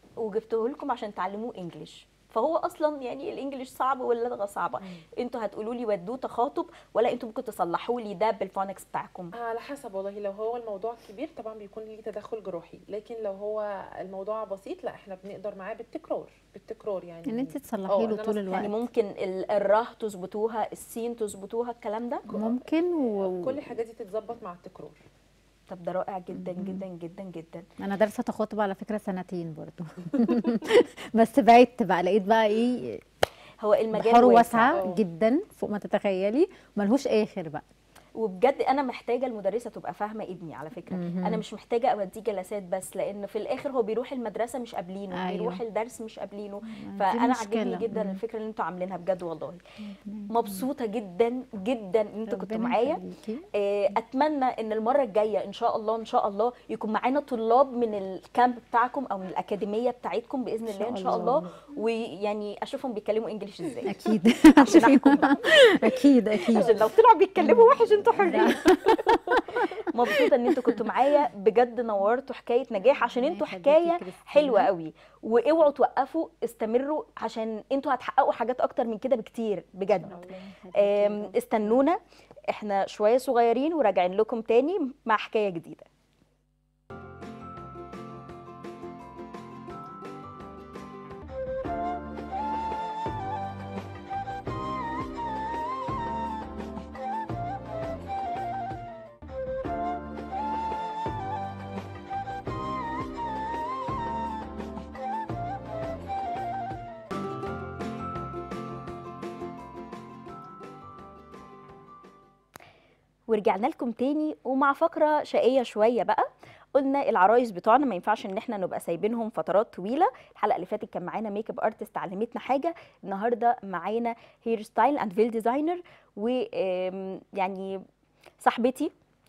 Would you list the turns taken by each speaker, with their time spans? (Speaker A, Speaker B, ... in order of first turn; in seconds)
Speaker A: 0.2-9.3, 18.6-22.2, 25.7-27.6, 33.6-34.8, 38.2-49.6, 50.3-53.0, 53.5-63.9, 64.6-65.4, 66.5-69.1, 69.9-82.0, 82.5-85.9, 113.3-127.8, 128.4-128.9
Speaker B: 9.3-18.7, 22.3-25.0, 34.7-35.0, 64.7-65.4, 68.2-69.4
Speaker C: 17.3-18.7, 22.3-23.7, 26.4-26.8, 27.8-33.0, 33.9-37.6, 40.9-41.4, 45.1-45.6, 46.7-48.2, 49.8-50.7, 52.3-53.5, 60.7-61.5, 63.9-66.8, 67.4-70.9, 72.9-74.7, 79.9-81.8